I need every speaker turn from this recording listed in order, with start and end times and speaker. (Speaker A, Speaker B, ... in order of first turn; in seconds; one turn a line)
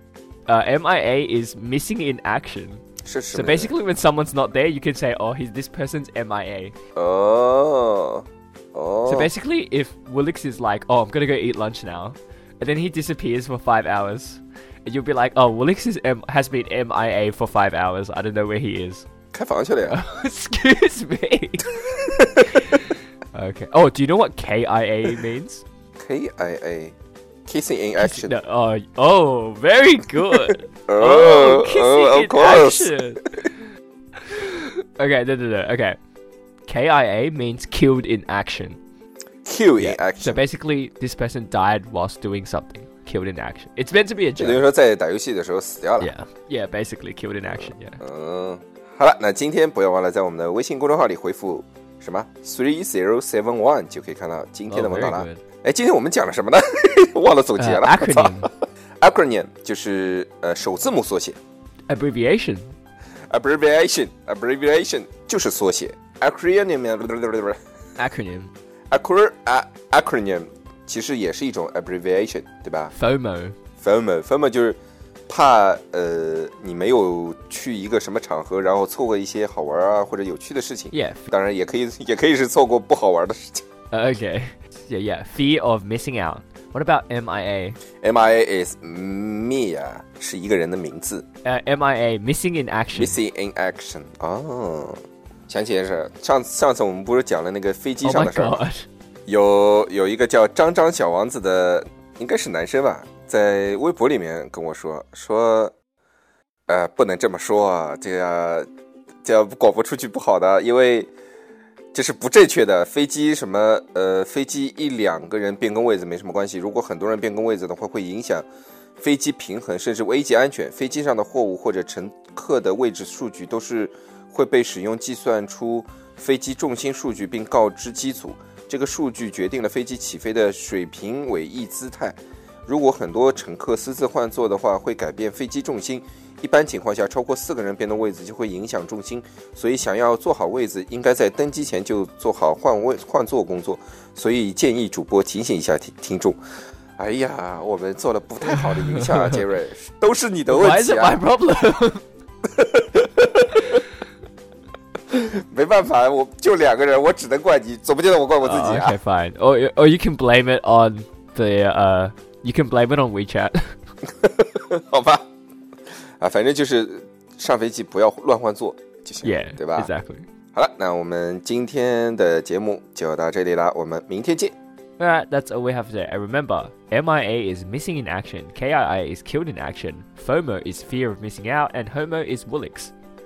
Speaker A: 0.5-6.8
Speaker B: 3.0-3.8
Speaker B: 7.0-9.3
Speaker A: 9.1-19.1
Speaker B: 19.3-20.0
Speaker A: 19.9-21.7
Speaker B: 21.8-22.6
Speaker A: 22.5-25.6
Speaker B: 26.0-26.9
Speaker B: 27.4-28.3
Speaker A: 28.0-33.3
Speaker B: 30.9-33.0
Speaker A: 34.2-36.0
Speaker A: 36.7-38.8
Speaker B: 39.4-40.4
Speaker A: 39.8-44.6
Speaker B: 44.4-46.1
Speaker A: 46.0-48.0
Speaker B: 47.5-61.4
Speaker A: 54.7-55.4
Speaker A: 57.6-58.5
Speaker A: 61.9-62.7
Speaker B: 63.3-67.6
Speaker A: 68.0-68.5
Speaker B: 68.9-72.9
Speaker A: 72.9-73.6
Speaker B: 73.8-83.6
Speaker A: 80.9-81.3
Speaker A: 83.9-87.8
Speaker B: 88.0-91.2
Speaker A: 91.4-93.2
Speaker B: 92.9-98.7
Speaker A: 98.0-98.8
Speaker B: 99.3-105.7
Speaker B: 106.7-108.7
Speaker B: 109.2-111.1
Speaker B: 111.9-118.5
Speaker B: 119.0-146.4
Speaker B: 147.0-151.2
Speaker A: 148.9-149.3
Speaker A: 150.5-152.0
Speaker B: 152.5-153.8
Speaker B: 155.1-159.0
Speaker A: 158.4-163.7
Speaker B: 164.1-165.2
Speaker B: 166.2-169.9
Speaker A: 169.2-170.2
Speaker B: 170.5-174.5
Speaker A: 175.0-182.9